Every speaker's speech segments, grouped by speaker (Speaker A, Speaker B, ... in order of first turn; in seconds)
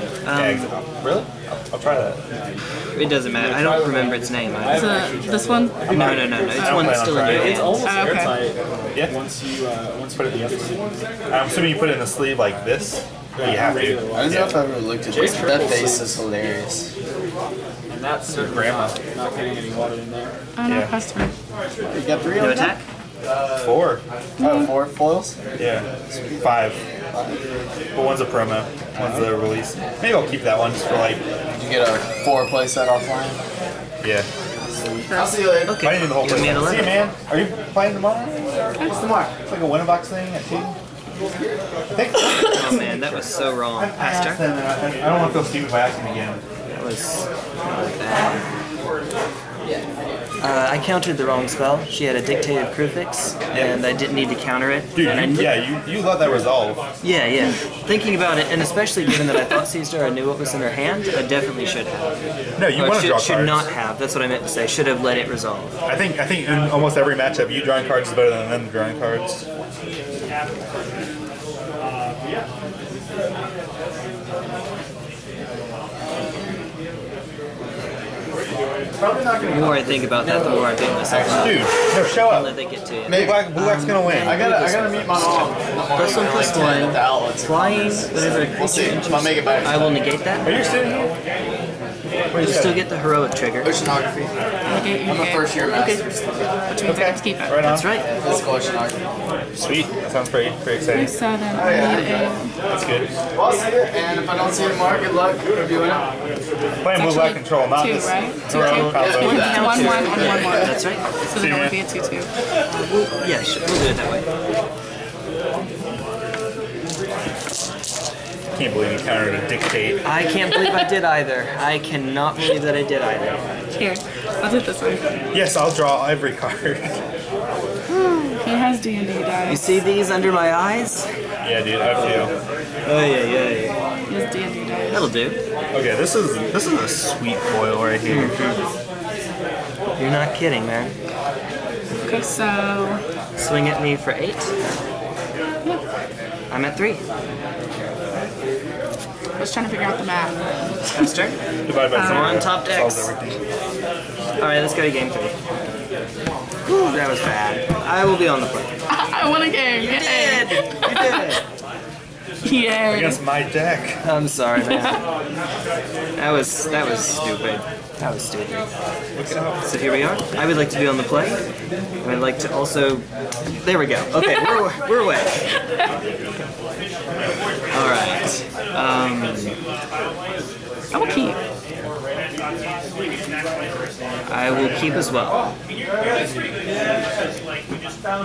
Speaker A: 0.2-0.7, 2.9-5.0, 5.9-7.8, 22.4-22.8, 35.7-37.0, 42.5-44.4, 46.7-48.5, 50.4-55.6, 57.0-62.1, 62.7-65.7, 79.5-90.5, 92.4-93.8, 97.6-98.1, 108.5-111.0, 112.7-114.2, 120.0-123.4, 127.9-128.4, 129.5-131.1, 132.8-133.8, 134.9-135.4, 138.1-138.6, 140.0-140.9, 143.4-144.5, 146.5-147.0, 150.9-153.1, 154.4-155.3, 156.7-158.7, 159.8-161.4, 164.0-165.0, 166.2-168.7, 169.6-171.4, 172.0-173.1, 173.6-175.4, 177.7-179.6, 184.3-185.4
Speaker B: 0.3-2.2, 5.9-8.4, 10.1-10.7, 11.3-14.6, 18.3-19.0, 23.6-24.0, 25.6-25.9, 26.4-26.8, 27.9-31.2, 34.0-34.3, 35.7-40.8, 41.9-46.4, 53.5-53.8, 55.0-56.8, 62.6-63.7, 65.9-69.4, 81.3-84.4, 90.4-91.1, 92.3-92.9, 96.8-97.9, 99.6-101.1, 102.7-103.1, 106.8-109.7, 111.3-111.8, 118.5-120.0, 125.3-127.0, 131.4-132.3, 135.7-138.5, 151.7-153.4, 162.9-164.0, 169.2-169.7
Speaker C: 2.3-2.6, 3.3-11.0, 13.4-14.6, 15.1-16.2, 17.9-20.3, 22.3-22.7
Speaker D: 4.7-6.0, 7.8-8.4, 20.6-21.3, 24.4-24.7, 35.1-35.4, 94.7-96.0, 96.7-97.6, 100.9-102.5, 106.9-112.3, 123.8-125.1, 128.4-129.8, 134.1-135.1, 142.0-143.0, 149.4-150.3, 151.9-152.5, 158.9-161.2, 162.4-163.2, 164.7-165.0, 180.9-181.4
Speaker E: 14.2-16.8, 22.2-22.6, 24.4-25.4, 31.6-33.4, 35.1-35.9, 79.0-81.7, 83.1-83.5, 84.1-90.1, 93.6-96.5, 98.0-99.0, 101.5-102.3, 103.3-106.1, 108.9-110.7